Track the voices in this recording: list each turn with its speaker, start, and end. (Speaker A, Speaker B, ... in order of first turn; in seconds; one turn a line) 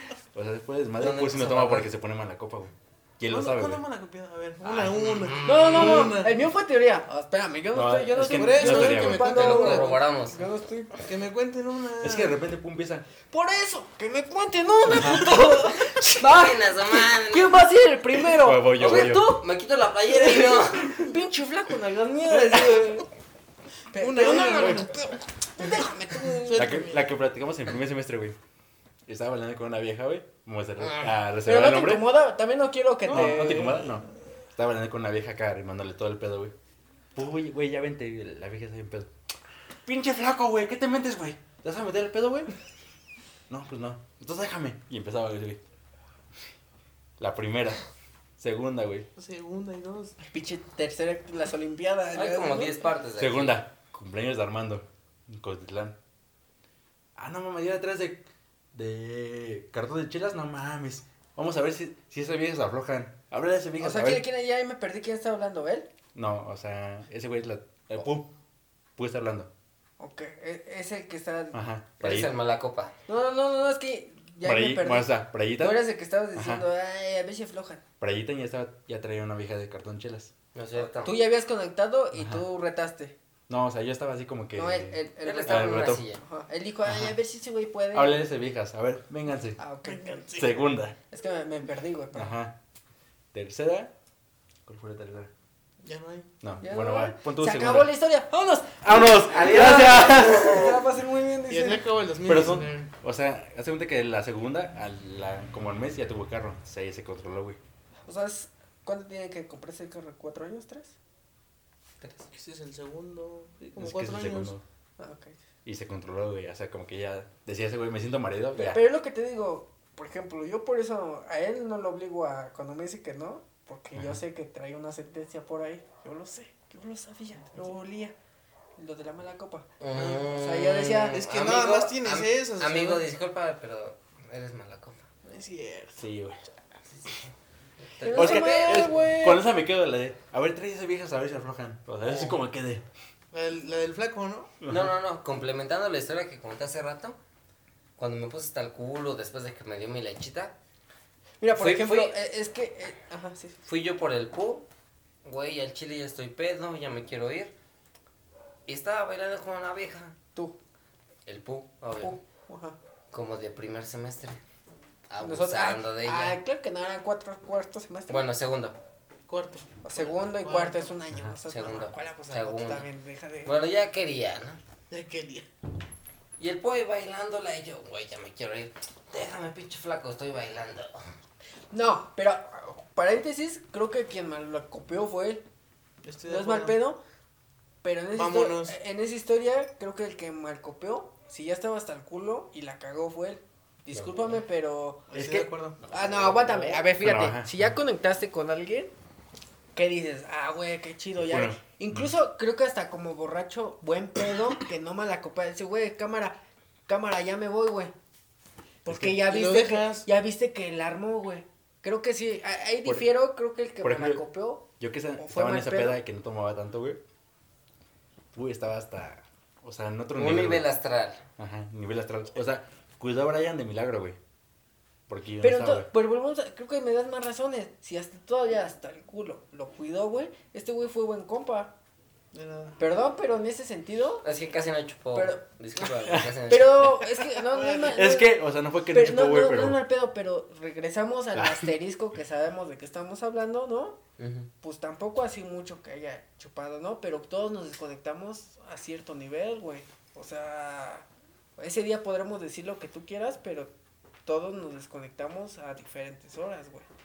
Speaker A: 0.3-3.8
Speaker B: 1.0-1.9
Speaker C: 3.3-6.5
Speaker B: 4.7-6.1
Speaker D: 5.4-11.1
Speaker A: 7.7-9.4
Speaker C: 8.2-10.0
Speaker B: 9.2-10.4
Speaker C: 11.0-12.4
Speaker A: 12.0-13.1
Speaker D: 13.3-19.4
Speaker A: 14.8-15.5
Speaker B: 15.9-17.6
Speaker A: 18.4-19.4
Speaker B: 18.7-21.1
Speaker D: 20.1-23.1
Speaker D: 23.9-26.7
Speaker C: 23.9-25.2
Speaker C: 26.3-27.1
Speaker A: 26.5-28.4
Speaker A: 29.1-32.1
Speaker D: 31.4-33.9
Speaker A: 33.1-36.5
Speaker C: 33.1-33.9
Speaker A: 37.1-39.1
Speaker A: 39.9-42.5
Speaker A: 43.5-45.6
Speaker A: 47.2-47.8
Speaker A: 48.4-49.1
Speaker C: 49.1-50.1
Speaker D: 50.3-52.8
Speaker B: 52.1-53.6
Speaker A: 53.2-56.0
Speaker A: 57.1-64.2
Speaker D: 63.8-65.9
Speaker A: 66.1-68.3
Speaker A: 69.0-69.5
Speaker D: 70.0-71.6
Speaker A: 71.5-72.3
Speaker B: 72.0-72.9
Speaker D: 73.1-77.8
Speaker A: 74.4-76.7
Speaker A: 78.0-80.3
Speaker B: 80.5-81.2
Speaker D: 81.0-83.1
Speaker A: 82.1-82.4
Speaker A: 83.5-86.1
Speaker D: 84.5-88.2
Speaker B: 85.2-86.2
Speaker A: 86.8-87.2
Speaker A: 87.9-89.6
Speaker D: 89.6-90.3
Speaker C: 89.8-90.5
Speaker A: 90.3-91.0
Speaker D: 91.1-92.3
Speaker A: 92.1-92.5
Speaker A: 93.3-93.9
Speaker A: 94.7-95.3
Speaker C: 95.8-96.3
Speaker A: 96.4-97.9
Speaker D: 96.6-101.8
Speaker A: 98.8-100.8
Speaker C: 101.5-102.9
Speaker A: 102.2-107.6
Speaker D: 108.1-111.0
Speaker B: 112.0-112.3
Speaker C: 112.3-114.5
Speaker A: 113.8-114.6
Speaker D: 115.0-115.4
Speaker A: 115.6-118.8
Speaker D: 118.5-128.1
Speaker A: 123.9-124.2
Speaker D: 128.8-129.7
Speaker B: 129.8-135.0
Speaker C: 129.9-130.3
Speaker D: 130.2-131.2
Speaker C: 131.1-133.0
Speaker C: 135.2-136.0
Speaker A: 135.9-136.4
Speaker B: 136.9-137.3
Speaker B: 137.8-139.0
Speaker D: 138.0-139.4
Speaker A: 138.1-142.8
Speaker C: 143.3-144.5
Speaker A: 144.6-144.9
Speaker B: 144.7-147.2
Speaker B: 148.0-150.5
Speaker D: 151.4-153.6
Speaker B: 151.6-152.1
Speaker B: 153.6-154.7
Speaker B: 155.2-157.5
Speaker B: 158.7-160.2
Speaker B: 161.2-162.1
Speaker D: 162.0-162.8
Speaker B: 163.1-164.4
Speaker B: 165.1-166.4
Speaker D: 165.2-168.3
Speaker B: 168.1-168.8
Speaker C: 169.3-170.9
Speaker D: 169.8-173.6
Speaker B: 171.5-172.9
Speaker B: 173.4-174.6
Speaker C: 174.9-175.5
Speaker B: 176.4-181.0
Speaker D: 181.7-185.4
Speaker C: 186.0-186.8
Speaker D: 186.2-187.0
Speaker D: 187.8-195.1
Speaker C: 188.1-188.8
Speaker C: 195.1-195.8
Speaker A: 195.1-195.5
Speaker D: 195.9-198.9
Speaker A: 197.0-197.7
Speaker D: 199.7-207.9
Speaker A: 201.2-202.1
Speaker D: 208.8-214.7
Speaker A: 208.9-209.2
Speaker C: 209.1-210.1
Speaker A: 213.8-217.0
Speaker D: 215.2-216.0
Speaker A: 218.3-220.7
Speaker B: 220.2-221.2
Speaker A: 221.4-224.2
Speaker A: 225.1-225.9
Speaker D: 225.4-231.7
Speaker C: 232.3-232.8
Speaker D: 232.8-234.3
Speaker B: 234.2-237.1
Speaker D: 235.1-235.4
Speaker A: 236.1-236.3
Speaker D: 236.4-244.0
Speaker C: 237.5-237.9
Speaker A: 237.8-239.8
Speaker A: 241.3-241.7
Speaker B: 244.2-244.5
Speaker D: 244.6-253.7
Speaker D: 254.2-256.9